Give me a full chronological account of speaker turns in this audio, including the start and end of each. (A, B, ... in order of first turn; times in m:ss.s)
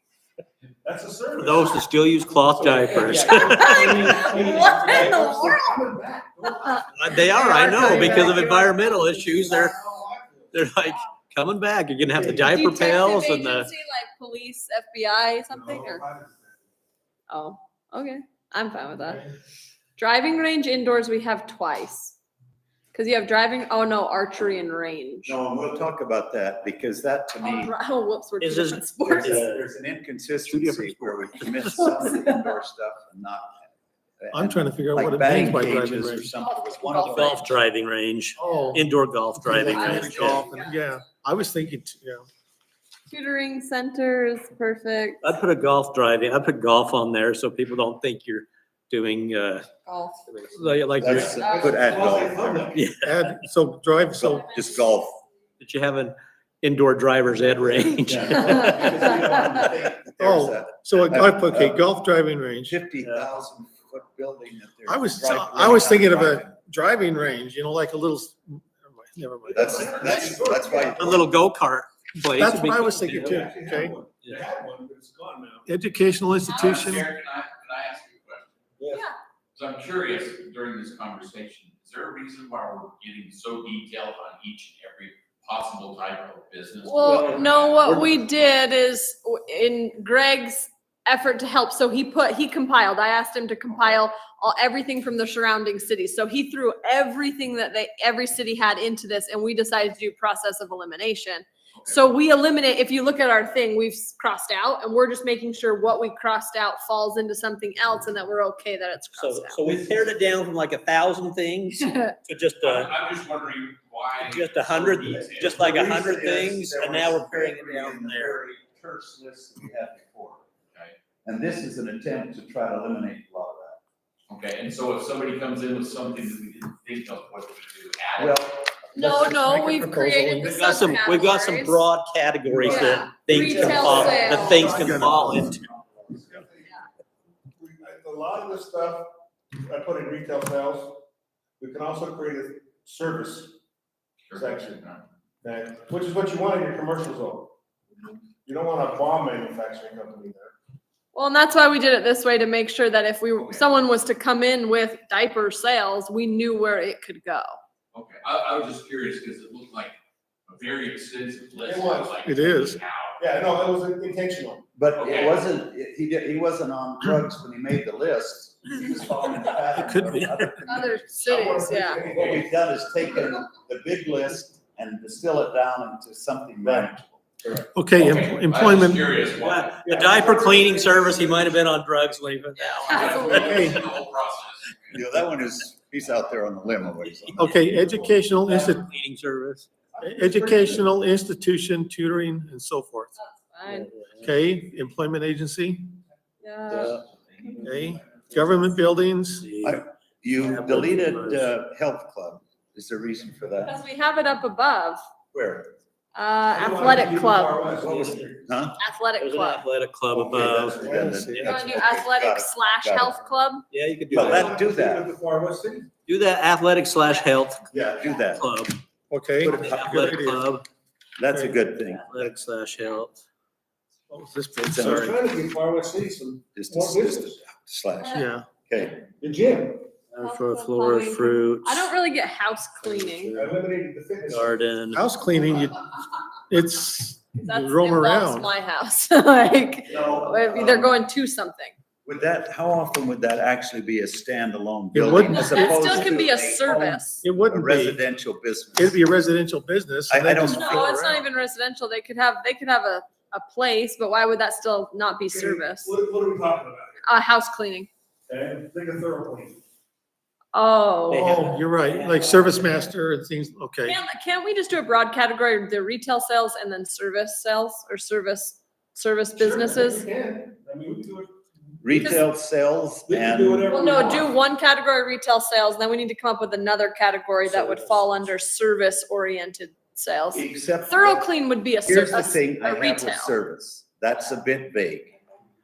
0:00.8-0:08.6 A
0:01.4-0:04.4 B
0:03.0-0:05.8 C
0:03.7-0:04.0 D
0:06.6-0:09.2 C
0:07.0-0:09.8 B
0:09.2-0:10.6 A
0:10.5-0:13.7 B
0:12.1-0:12.5 A
0:12.4-0:16.0 C
0:15.5-0:16.7 A
0:17.3-0:19.3 C
0:20.0-0:22.2 C
0:22.9-0:25.4 C
0:25.2-0:27.7 D
0:27.4-0:29.5 C
0:28.4-0:29.6 B
0:29.0-0:33.7 D
0:30.5-0:31.5 B
0:31.7-0:32.6 C
0:34.2-0:37.4 D
0:34.3-0:36.3 E
0:36.4-0:37.6 C
0:37.1-0:40.4 B
0:38.4-0:38.9 E
0:39.4-0:42.2 E
0:39.7-0:40.7 C
0:43.1-0:45.2 C
0:45.2-0:49.7 B
0:49.8-0:50.3 C
0:50.3-0:51.3 B
0:51.0-0:52.8 D
0:51.2-0:52.8 A
0:51.2-0:52.0 C
0:52.7-0:53.1 B
0:53.0-0:54.5 E
0:54.2-0:55.2 D
0:54.2-0:55.1 C
0:55.6-0:59.0 B
0:58.0-1:01.8 D
0:58.2-0:59.7 A
1:00.2-1:02.7 E
1:02.6-1:06.6 D
1:03.0-1:03.3 B
1:04.9-1:10.4 E
1:09.4-1:11.2 A
1:09.5-1:11.3 D
1:10.0-1:10.3 F
1:11.0-1:13.4 B
1:12.3-1:14.0 E
1:13.1-1:15.7 A
1:14.1-1:14.4 B
1:15.7-1:17.1 E
1:16.4-1:16.9 C
1:16.5-1:18.6 F
1:19.5-1:28.5 F
1:26.8-1:49.6 C
1:27.0-1:28.1 B
1:49.2-1:52.9 B
1:51.8-1:52.1 C
1:52.6-1:55.7 F
1:54.2-1:58.4 B
1:55.1-2:00.4 D
2:01.2-2:03.8 D
2:04.3-2:08.4 F
2:08.2-2:09.3 D
2:08.9-2:11.8 C
2:09.0-2:10.6 E
2:10.5-2:15.6 B
2:12.5-2:16.7 A
2:12.6-2:14.7 C
2:14.2-2:15.6 E
2:17.6-2:21.0 A
2:21.6-2:23.5 A
2:24.3-2:25.0 F
2:24.3-2:24.8 A
2:25.4-2:27.5 A
2:28.4-2:30.5 A
2:31.1-2:37.6 C
2:33.4-2:33.6 F
2:37.9-2:39.9 F
2:40.5-2:43.2 F
2:41.6-2:42.2 A
2:42.2-2:42.8 E
2:43.2-2:44.6 A
2:44.7-2:50.9 D
2:45.0-2:45.4 F
2:49.8-2:50.5 E
2:50.6-2:52.0 C
2:51.1-2:52.5 A
2:52.1-2:52.4 F
2:52.1-2:57.6 D
2:57.7-2:59.1 E
2:57.9-3:00.3 F
2:59.3-3:03.5 B
2:59.8-3:01.2 A
3:02.6-3:03.9 C
3:02.7-3:05.1 F
3:03.4-3:03.8 E
3:04.9-3:07.5 D
3:07.0-3:09.7 B
3:07.4-3:08.9 E
3:09.9-3:10.9 A
3:10.0-3:13.1 E
3:13.2-3:13.9 C
3:13.7-3:14.3 B
3:14.2-3:16.0 E
3:16.4-3:17.6 C
3:16.7-3:17.0 B
3:17.6-3:18.3 A
3:17.6-3:19.5 E
3:19.4-3:19.8 B
3:19.6-3:23.8 D
3:20.4-3:21.5 B
3:23.6-3:25.0 C
3:25.3-3:25.7 D
3:26.1-3:27.7 C
3:26.5-3:28.4 A
3:27.8-3:28.3 B
3:28.4-3:28.8 D
3:28.8-3:29.6 C
3:29.2-3:31.7 B
3:30.1-3:33.2 D
3:30.2-3:31.2 A
3:30.9-3:31.4 E
3:31.4-3:33.6 C
3:33.7-3:34.5 B
3:34.1-3:35.1 D
3:34.1-3:35.9 A
3:36.0-3:37.7 B
3:37.7-3:38.5 D
3:38.3-3:38.8 B
3:39.1-3:40.5 E
3:39.4-3:40.1 D
3:39.6-3:40.6 B
3:41.2-3:42.0 D
3:41.3-3:41.6 E
3:42.1-3:43.2 B
3:44.1-3:45.1 E
3:44.6-3:45.2 D
3:44.8-3:47.4 A
3:46.5-3:49.0 D
3:48.0-3:48.4 C
3:48.1-3:48.5 E
3:49.2-3:49.9 A
3:50.1-3:51.9 B
3:50.2-3:53.3 C
3:53.0-3:53.4 B
3:53.3-3:54.6 A
3:54.3-3:55.0 B
3:54.9-3:55.9 E
3:56.5-3:58.5 E
3:57.4-4:01.7 C
3:59.9-4:01.0 D
4:02.0-4:09.0 D
4:04.9-4:06.1 E
4:05.3-4:07.2 C
4:07.2-4:08.0 E
4:08.8-4:11.2 E
4:10.1-4:10.9 D
4:10.5-4:15.9 C
4:15.3-4:17.0 A
4:17.0-4:17.9 C
4:18.3-4:19.6 A
4:20.5-4:21.4 C
4:21.1-4:22.8 B
4:21.1-4:24.0 E
4:23.8-4:30.0 C
4:29.4-4:31.4 A
4:31.8-4:33.8 D
4:31.9-4:32.2 C
4:33.1-4:34.3 A
4:33.7-4:43.3 C
4:40.3-4:41.3 D
4:41.8-4:45.1 D